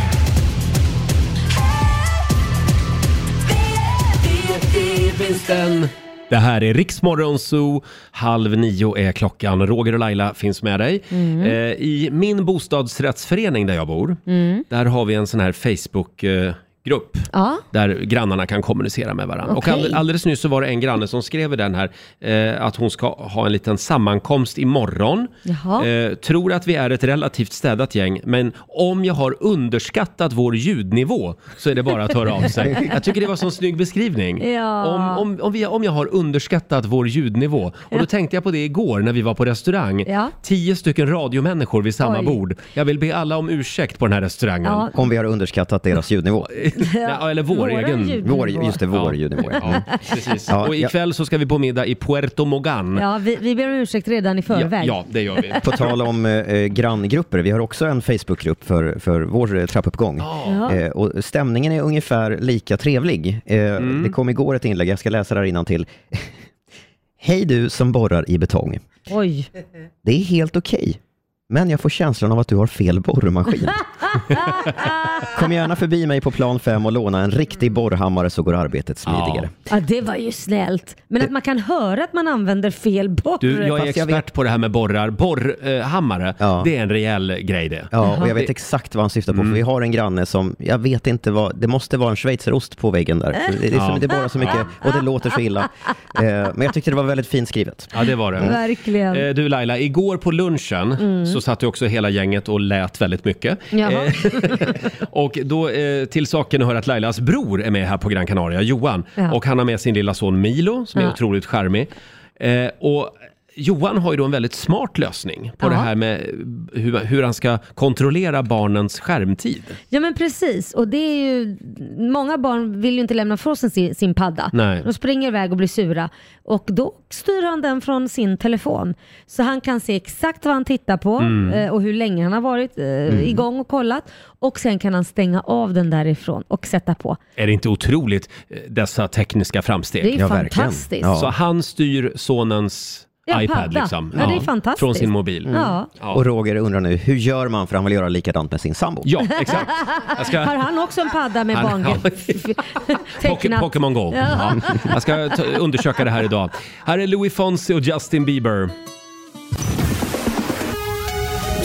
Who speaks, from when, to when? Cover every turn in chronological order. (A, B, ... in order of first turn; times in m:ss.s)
0:04.2-0:44.9 A
0:11.1-0:11.6 B
0:14.3-0:14.6 B
0:17.3-0:17.6 B
0:19.5-0:20.0 B
0:25.5-0:25.9 B
0:34.4-0:35.2 B
0:40.1-0:40.3 B
0:42.0-0:42.4 B
0:44.6-0:44.9 B
0:44.9-0:46.5 C
0:46.5-0:48.2 A
0:46.8-0:48.8 B
0:48.2-0:49.9 C
0:48.9-0:53.0 A
0:50.5-0:50.9 C
0:53.0-0:55.6 B
0:54.5-0:55.7 A
0:55.6-1:06.3 C
1:00.2-1:00.6 A
1:00.5-1:00.8 B
1:03.8-1:04.2 A
1:07.2-1:08.8 C
1:09.1-1:09.5 B
1:10.0-1:13.8 C
1:14.1-1:15.3 B
1:15.2-1:19.5 C
1:19.1-1:19.5 A
1:19.7-1:23.8 B
1:23.4-1:28.5 A
1:23.8-1:24.2 C
1:26.4-1:26.7 C
1:27.9-1:38.6 C
1:29.3-1:29.6 A
1:33.7-1:34.7 A
1:37.9-1:38.6 A
1:38.4-1:39.3 B
1:39.1-1:59.8 A
1:41.0-1:41.4 B
1:43.7-1:44.8 B
1:55.6-1:55.9 B
1:59.9-2:17.2 B
2:04.5-2:04.9 A
2:11.2-2:11.6 A
2:13.1-2:13.4 C
2:17.4-2:20.2 A
2:20.0-2:21.1 B
2:20.1-2:21.3 C
2:21.1-2:26.2 A
2:23.3-2:25.9 B
2:24.2-2:24.4 C
2:25.5-2:29.1 C
2:29.0-2:30.6 A
2:29.4-2:34.9 B
2:31.5-2:38.7 A